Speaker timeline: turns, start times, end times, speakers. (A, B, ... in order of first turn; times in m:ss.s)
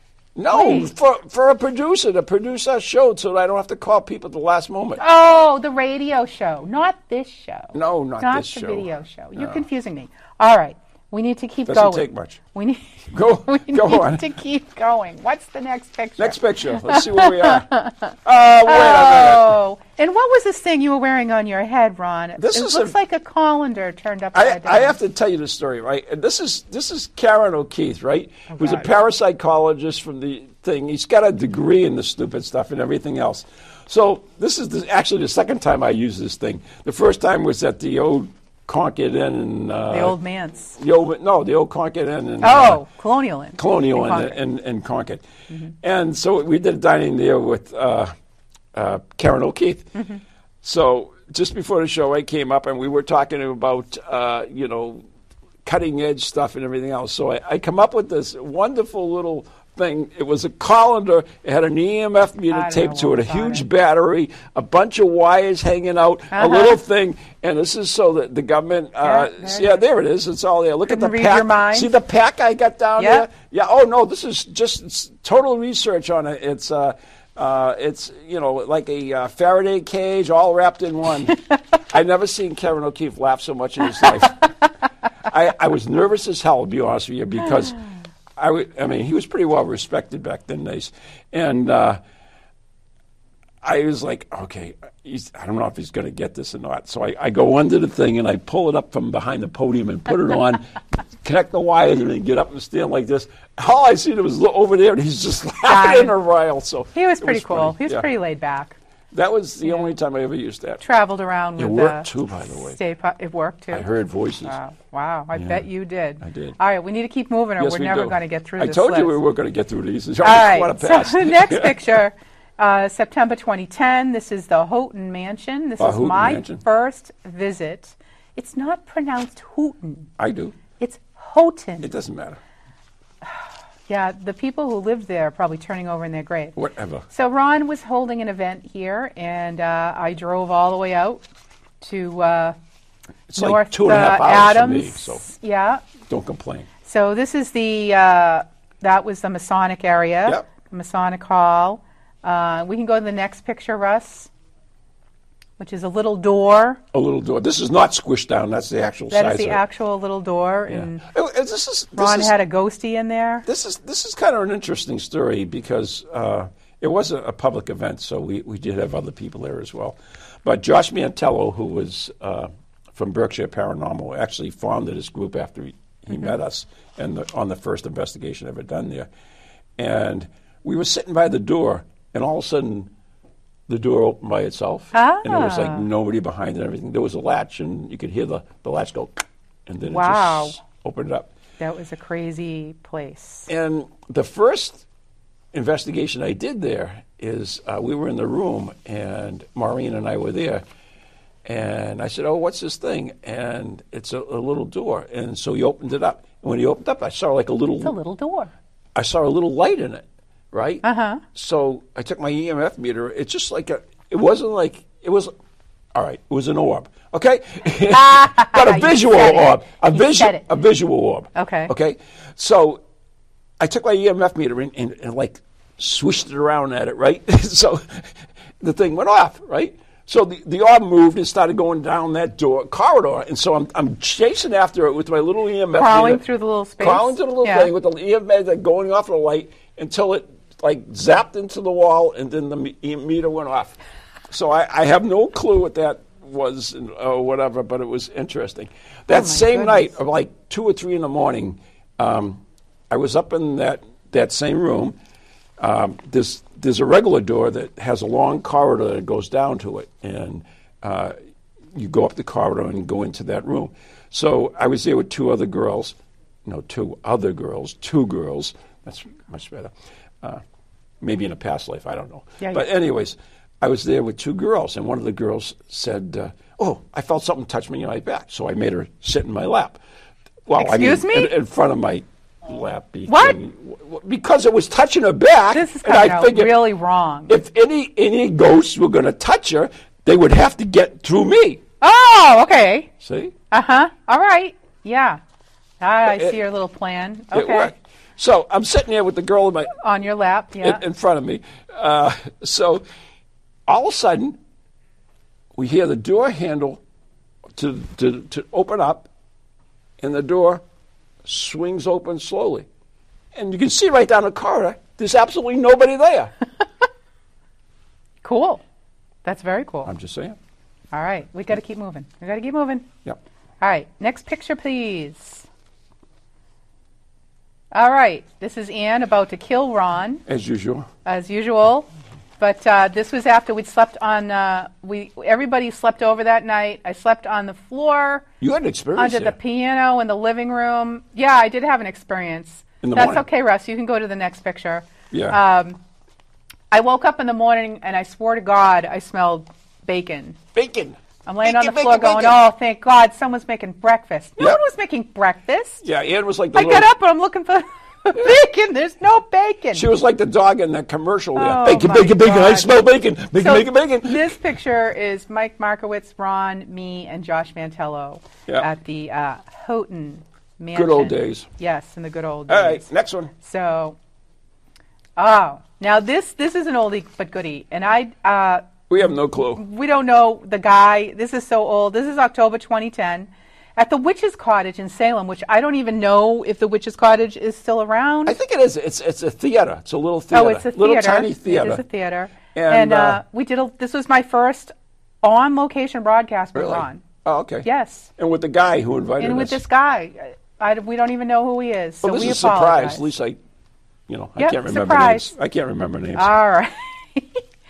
0:00.4-0:05.0 A
0:00.5-0:00.9 B
0:05.0-0:25.0 B
0:07.7-0:09.6 A
0:11.7-0:12.4 A
0:13.1-0:14.2 A
0:16.2-0:17.7 A
0:18.2-0:19.6 A
0:22.4-0:22.9 A
0:24.3-0:40.2 A
0:28.5-0:28.9 B
0:39.9-0:40.7 B
0:40.7-0:42.8 A
0:42.4-0:44.4 B
0:43.6-0:45.2 A
0:45.8-0:48.1 A
0:48.7-0:49.9 A
0:49.9-0:50.2 B
0:50.6-0:55.0 A
0:55.6-1:21.4 A
1:02.5-1:03.6 B
1:06.3-1:06.8 B
1:09.0-1:09.8 B
1:10.9-1:11.9 B
1:13.0-1:13.3 B
1:21.9-1:24.5 A
1:25.3-1:27.8 A
1:28.4-1:32.0 A
1:33.6-1:48.1 A
1:45.6-1:46.1 B
1:46.9-1:48.8 B
1:49.1-1:50.8 A
1:49.6-1:49.9 B
1:50.8-1:53.9 B
1:51.6-1:52.8 A
1:53.7-1:54.6 A
1:54.4-1:59.2 B
1:55.3-1:55.6 A
1:56.2-1:56.6 A
1:57.6-2:01.9 A
2:00.2-2:10.1 B
2:05.8-2:06.6 A
2:10.2-2:10.6 A
2:10.8-2:11.9 B
2:11.8-2:12.4 A
2:13.2-2:16.6 B
2:16.5-2:17.0 A
2:17.1-2:21.2 B
2:21.8-2:22.6 B
2:23.3-2:25.2 A
2:23.4-2:25.8 B
2:26.1-2:26.7 A
2:26.8-2:34.3 B
2:35.6-2:36.8 B
2:36.9-2:39.6 A
2:39.1-2:41.0 B
2:40.7-2:42.3 A
2:42.0-2:43.4 B
2:43.4-2:59.1 A
2:59.8-3:02.9 A
3:03.7-3:11.3 A
3:04.9-3:05.8 B
3:09.8-3:10.6 B
3:11.6-3:13.5 B
3:13.5-3:14.8 A
3:15.5-3:20.6 A
3:21.4-3:27.9 A
3:27.8-3:28.5 B
3:28.9-3:35.3 A
3:30.8-3:31.2 B
3:35.9-3:42.8 A
3:37.9-3:40.4 B
3:41.3-3:41.7 B
3:43.6-3:56.2 A
3:55.7-3:57.7 B
3:56.8-4:03.8 A
4:04.3-4:15.0 A
4:09.1-4:10.0 B
4:15.6-4:21.2 A
4:21.7-4:30.4 A
4:31.0-4:39.8 A
4:40.5-4:46.6 A
4:40.6-4:41.3 B
4:43.1-4:43.4 B
4:45.5-4:47.3 B
4:47.3-4:51.6 A
4:51.8-4:52.9 B
4:53.0-4:53.3 A
4:53.5-4:55.2 B
4:55.8-4:57.7 B
4:56.1-4:56.4 A
4:57.3-4:59.7 A
4:59.8-5:00.8 B
5:00.6-5:02.8 A
5:03.7-5:04.4 A
5:05.6-5:06.8 A
5:07.5-5:09.1 A
5:10.0-5:10.6 A
5:11.2-5:12.7 A
5:13.3-5:16.3 A
5:18.2-5:18.6 B
5:19.2-5:19.9 B
5:19.8-5:20.4 A
5:20.9-5:22.9 B
5:23.6-5:25.4 B
5:27.7-5:30.2 B
5:30.2-5:30.9 A
5:31.0-5:31.9 B
5:32.4-5:38.2 B
5:38.4-5:39.4 A
5:39.0-5:45.8 B
5:42.8-5:43.2 A
5:45.1-5:45.4 A
5:46.7-5:50.4 B
5:50.5-5:52.4 A
5:51.2-5:55.8 B
5:55.8-5:56.9 A
5:56.5-5:59.9 B
5:59.7-6:04.3 A
6:01.4-6:02.8 B
6:03.3-6:14.0 B
6:10.7-6:11.5 A
6:12.5-6:13.3 A
6:15.2-6:18.8 B
6:18.9-6:19.6 A
6:19.5-6:28.4 B
6:28.2-6:31.8 A
6:30.3-6:37.0 B
6:32.5-6:33.2 A
6:36.5-6:39.6 A
6:37.6-6:38.1 B
6:39.2-6:43.0 B
6:42.0-6:43.4 A
6:44.1-6:46.3 A
6:44.4-6:45.3 B
6:46.1-6:47.4 B